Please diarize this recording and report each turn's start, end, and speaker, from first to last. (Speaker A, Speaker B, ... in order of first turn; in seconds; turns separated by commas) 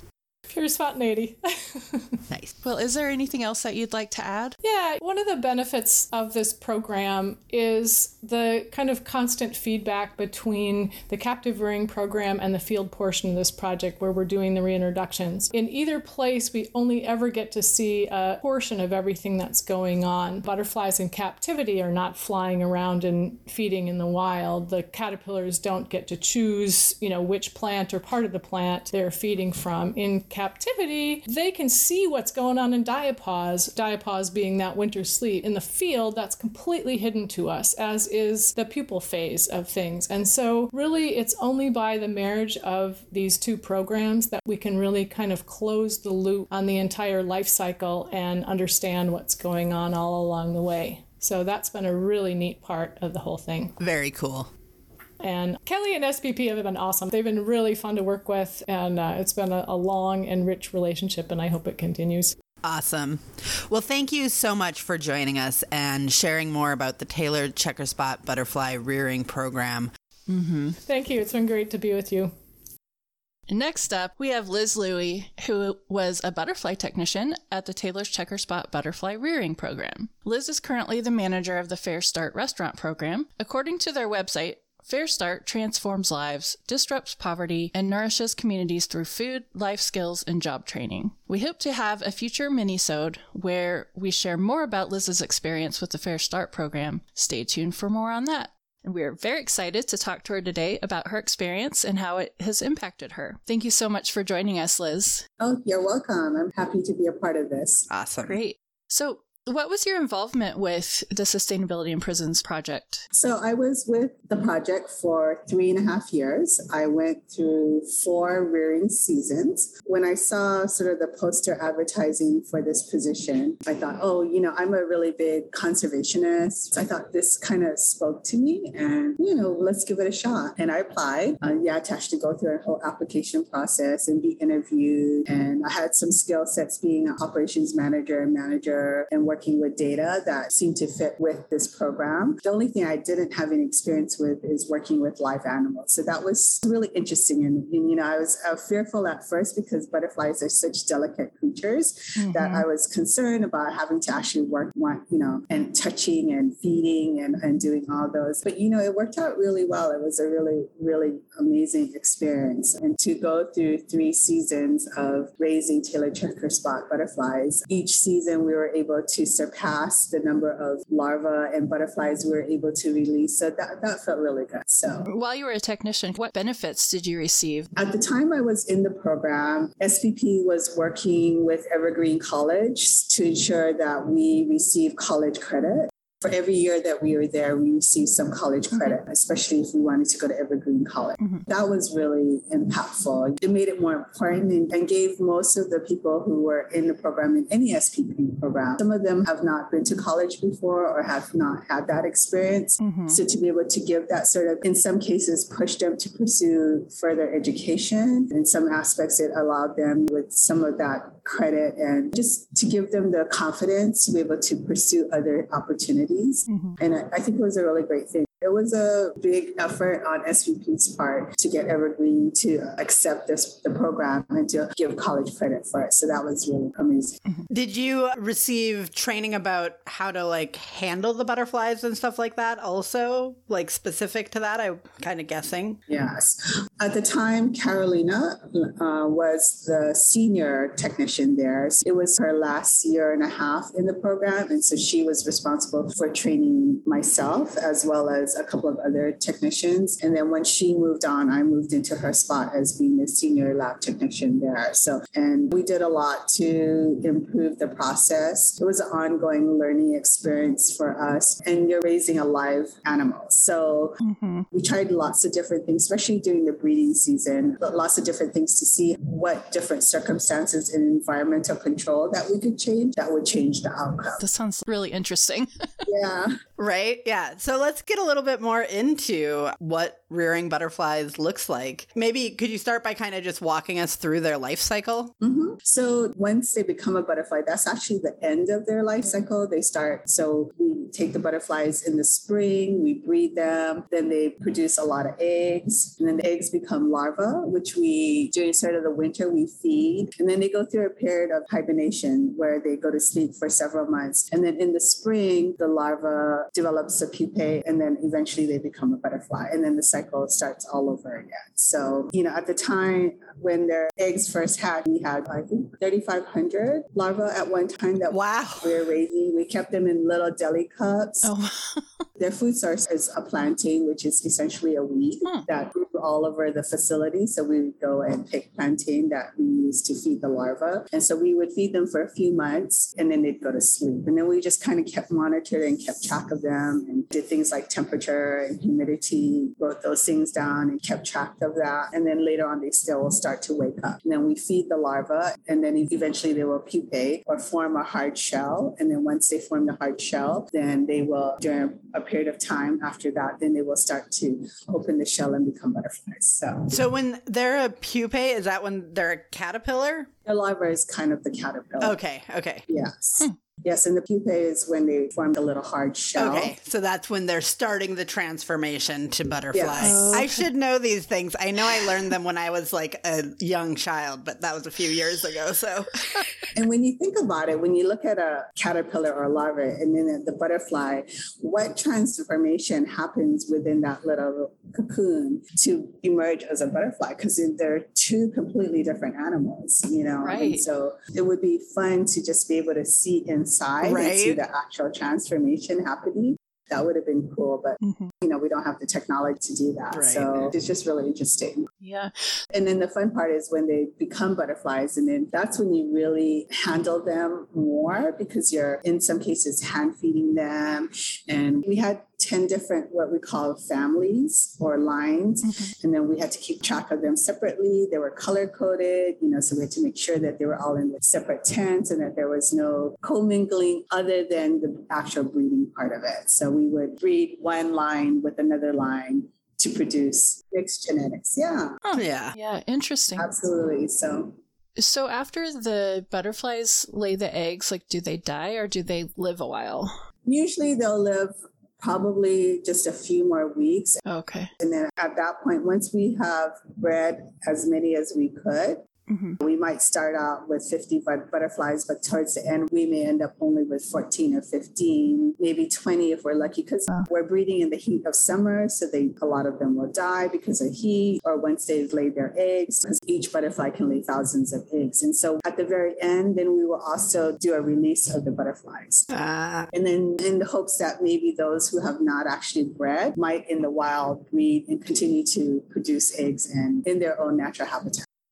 Speaker A: 0.5-2.2, Speaker B: 2.3-2.5, Speaker C: 2.6-4.5, Speaker A: 4.6-53.7, Speaker B: 53.8-54.5, Speaker A: 55.2-62.4, Speaker B: 62.6-69.9, Speaker C: 70.3-70.8, Speaker A: 70.8-72.3, Speaker C: 73.5-105.2, Speaker D: 105.4-107.9, Speaker B: 107.9-108.4, Speaker C: 108.2-113.0, Speaker D: 113.1-175.1, Speaker C: 152.2-152.7, Speaker C: 175.1-177.7, Speaker D: 177.8-227.2, Speaker C: 202.8-203.2, Speaker C: 216.5-216.8, Speaker B: 227.5-235.8, Speaker D: 235.9-264.0, Speaker C: 264.0-264.4, Speaker D: 264.5-274.2, Speaker C: 274.2-275.8, Speaker D: 275.8-276.4, Speaker B: 276.6-285.1, Speaker D: 285.2-321.3, Speaker B: 318.1-318.9, Speaker C: 321.2-322.0, Speaker D: 322.2-356.8, Speaker B: 356.7-360.1, Speaker D: 360.2-362.0, Speaker B: 361.8-362.6, Speaker D: 362.7-366.5, Speaker B: 366.2-376.2, Speaker D: 369.5-370.2, Speaker C: 369.8-370.4, Speaker D: 376.5-401.7, Speaker C: 390.2-390.6, Speaker B: 393.8-394.4, Speaker C: 397.8-398.1, Speaker B: 399.9-400.5, Speaker C: 401.8-402.1, Speaker D: 402.5-431.8, Speaker C: 415.4-415.7, Speaker C: 431.8-433.3, Speaker B: 431.9-432.3, Speaker D: 433.2-434.4, Speaker C: 434.8-439.9, Speaker D: 440.2-444.0, Speaker C: 444.0-444.5, Speaker D: 444.6-448.9, Speaker C: 449.1-449.4, Speaker D: 449.4-469.1, Speaker B: 469.1-469.7, Speaker D: 469.7-478.0